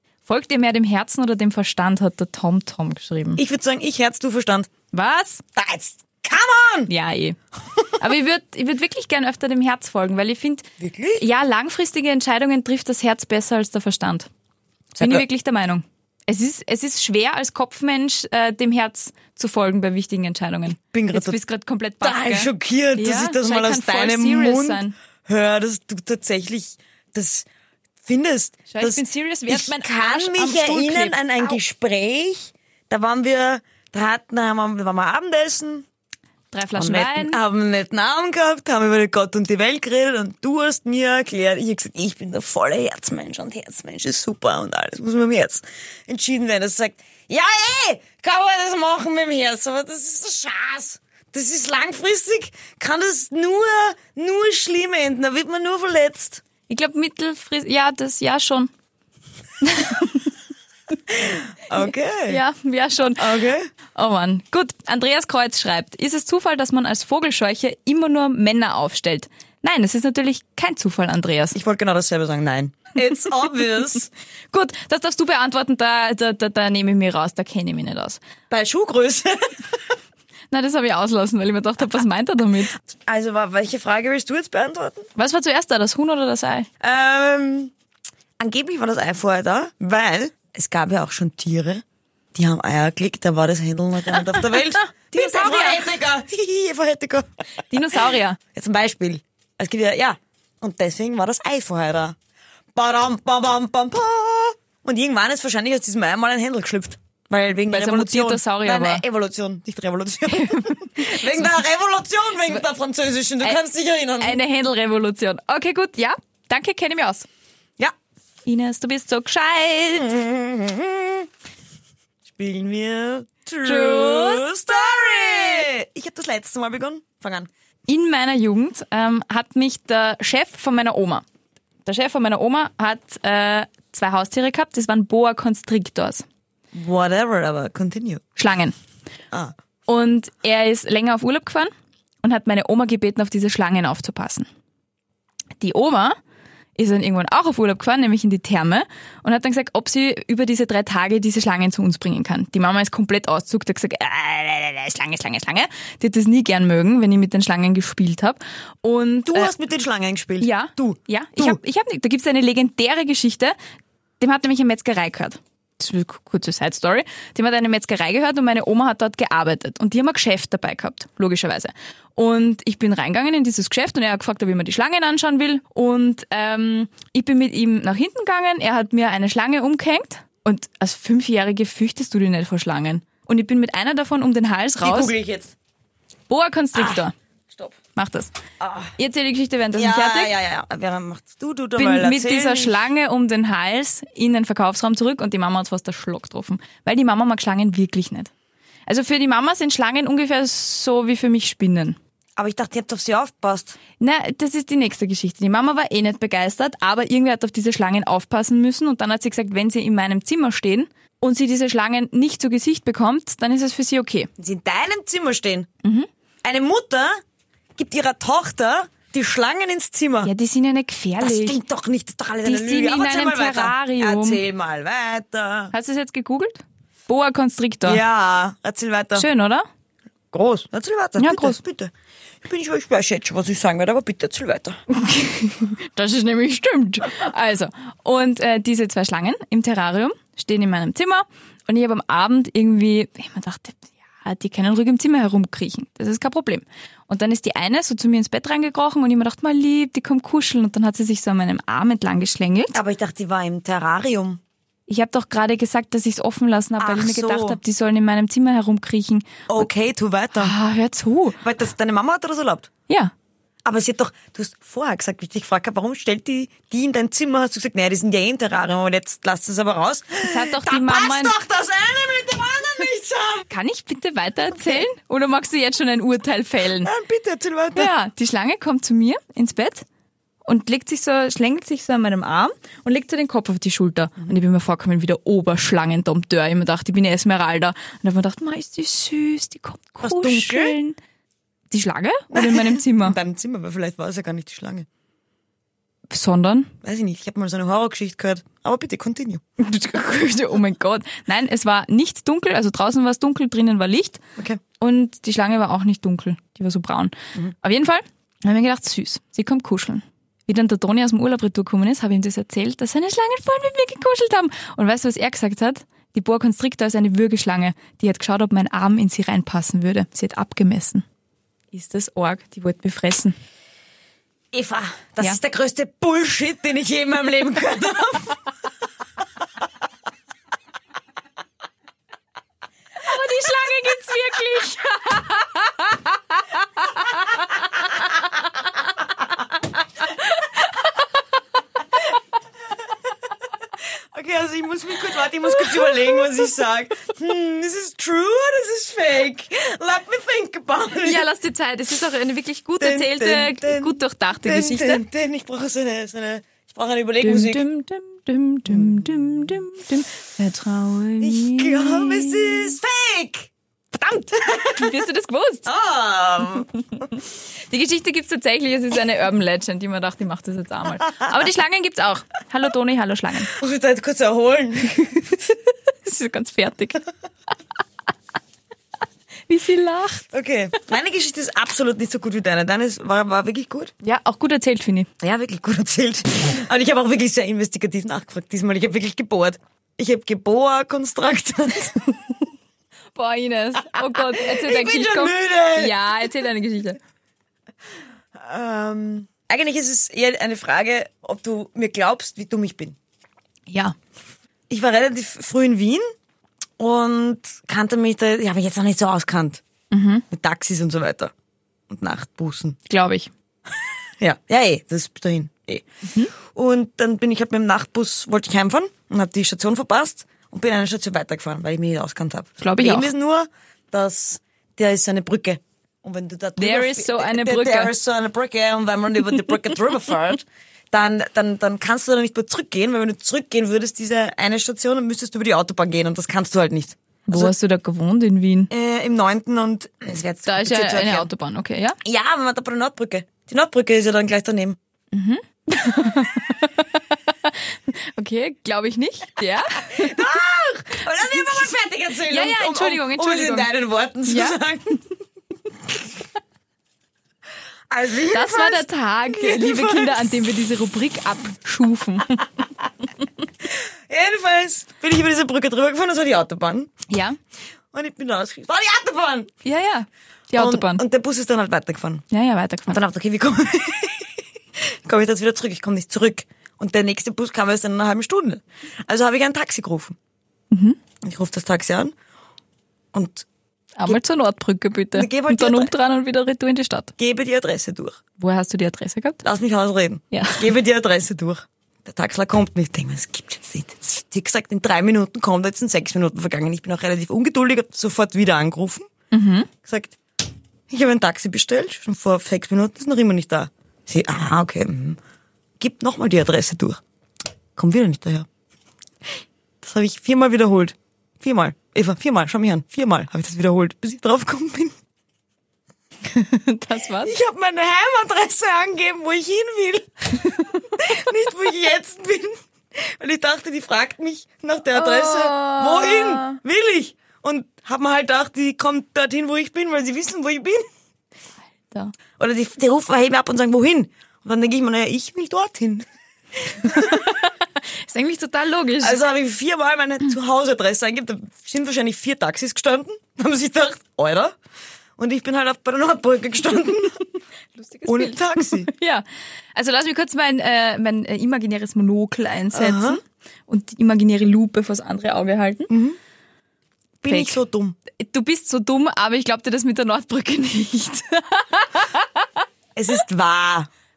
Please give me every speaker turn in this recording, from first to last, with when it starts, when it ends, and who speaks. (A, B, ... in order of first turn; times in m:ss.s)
0:00.3-0:03.4 A
0:03.4-0:04.7 B
0:04.9-0:05.4 A
0:05.6-0:06.9 B
0:06.9-0:07.4 A
0:08.0-0:14.3 A
0:10.8-0:11.2 B
0:15.0-0:15.2 B
0:15.0-0:25.0 A
0:20.8-0:21.4 B
0:22.0-0:27.5 B
0:28.0-0:35.9 B
0:28.7-0:31.6 A
0:36.5-0:37.4 A
0:36.8-0:56.4 B
0:56.7-0:58.7 A
0:59.6-1:00.3 A
1:01.1-1:02.4 B
1:02.3-1:03.4 A
1:03.2-1:03.7 B
1:04.0-1:11.6 A
1:11.5-1:14.1 B
1:14.5-1:18.2 A
1:18.5-1:19.8 B
1:20.5-1:22.7 A
1:22.8-1:25.1 B
1:25.2-1:26.7 A
1:26.8-1:27.7 B
1:28.4-1:31.8 B
1:32.3-1:37.3 B
1:35.1-1:35.9 A
1:37.7-1:38.4 A
1:38.5-1:42.2 B
1:42.8-1:54.4 B
1:47.7-1:49.0 A
1:50.3-1:51.5 A
1:54.2-1:57.3 A
1:58.4-2:00.1 A
2:00.0-2:01.3 B
2:02.2-2:07.5 B
2:03.6-2:05.7 A
2:07.9-2:11.2 A
2:11.8-2:16.2 A
2:16.7-2:18.2 B
2:18.4-2:18.8 A
2:19.9-2:21.7 A
2:22.2-2:24.5 A
2:25.6-2:26.2 A
2:26.8-2:39.5 A
2:39.3-2:41.6 B
2:40.4-2:43.6 A
2:44.2-3:05.1 A
3:04.8-3:05.5 B
3:06.3-3:07.1 A
3:06.8-3:07.8 B
3:08.0-3:08.4 A
3:08.6-3:09.0 B
3:09.0-3:10.3 A
3:09.7-3:12.8 B
3:11.8-3:18.3 A
3:18.9-3:22.0 A
3:22.4-3:23.8 B
3:24.0-3:34.3 A
3:34.4-3:35.7 B
3:36.4-3:37.2 B
3:37.8-3:40.3 B
3:40.2-3:41.6 A
3:41.2-3:45.7 B
3:42.4-3:44.4 A
3:45.7-3:48.0 A
3:47.8-3:49.3 B
3:49.2-3:49.7 A
3:50.3-3:51.9 B
3:51.2-3:51.6 A
3:52.4-3:54.8 B
3:54.9-4:12.8 A
4:12.7-4:14.4 B
4:14.9-4:19.7 A
4:16.8-4:17.6 B
4:19.5-4:20.6 B
4:20.4-4:21.4 A
4:21.4-4:22.7 B
4:23.6-4:33.5 B
4:30.2-4:31.4 A
4:33.5-4:36.9 A
4:34.5-4:34.8 B
4:36.8-4:37.9 B
4:37.8-4:39.8 A
4:40.4-4:51.0 A
4:50.0-4:50.8 B
4:51.7-4:53.2 A
4:52.3-4:54.9 B
4:56.1-4:56.7 A
4:56.8-4:59.4 B
4:59.6-5:04.2 A
5:04.8-5:21.0 A
5:21.7-5:23.4 A
5:24.5-5:28.4 B
5:33.0-5:37.8 A
5:40.2-5:40.9 A
5:44.1-5:51.3 B
5:45.6-5:46.2 A
5:51.0-5:55.0 A
5:52.8-5:57.6 B
5:57.2-6:02.8 A
5:58.7-5:59.6 B
6:01.2-6:03.5 B
6:03.9-6:05.7 A
6:04.4-6:04.9 B
6:05.7-6:06.7 B
6:07.7-6:13.5 A
6:13.5-6:15.1 B
6:15.0-6:17.0 A
6:19.5-6:20.3 A
6:20.3-6:23.9 B
6:24.0-6:25.1 A
6:25.2-6:32.3 B
6:33.2-6:37.0 A
6:34.0-6:36.0 B
6:38.3-6:43.0 B
6:43.7-6:44.0 A
6:44.7-6:46.1 B
6:46.8-6:49.6 B
6:49.9-6:50.2 A
6:50.3-6:51.3 B
6:51.9-6:52.8 B
6:52.9-6:53.3 A
6:54.2-7:17.5 B
6:56.1-6:56.3 A
7:02.6-7:03.1 A
7:06.6-7:07.9 A
7:17.3-7:18.7 A
7:18.7-7:21.3 B
7:20.4-7:22.0 A
7:22.0-7:24.8 B
7:25.1-7:30.2 A
7:29.9-7:35.0 B
7:31.0-7:31.7 A
7:32.3-7:33.7 A
7:34.3-7:34.6 A
7:37.9-7:40.3 B
7:38.3-7:42.5 A
7:43.6-7:46.9 B
7:47.1-7:47.4 A
7:47.9-7:49.5 B
7:49.6-7:51.0 A
7:50.6-7:52.2 B
7:52.3-7:53.0 A
7:52.9-8:00.2 B
8:00.7-8:01.0 A
8:01.2-8:02.2 B
8:03.1-8:03.5 B
8:04.0-8:07.1 A
8:05.1-8:05.9 B
8:07.2-8:08.2 B
8:08.4-8:09.4 A
8:09.4-8:19.1 B
8:10.3-8:10.7 A
8:19.3-8:19.7 A
8:19.8-8:20.2 B
8:20.9-8:25.2 B
8:25.8-8:27.0 B
8:27.8-8:28.5 B
8:29.8-8:35.0 B
8:36.3-8:37.4 A
8:37.2-8:40.4 B
8:40.4-8:40.9 A
8:40.9-8:50.9 B
8:44.9-8:46.6 A
8:52.4-8:57.2 B
8:56.9-8:59.2 A
8:59.0-9:04.6 B
9:05.2-9:07.2 B
9:07.8-9:09.2 A
9:08.0-9:08.9 B
9:09.8-9:15.9 A
9:12.7-9:13.2 B
9:15.9-9:16.2 B
9:17.2-9:18.0 B
9:17.3-9:17.6 A
9:18.2-9:22.5 A
9:23.0-9:23.9 B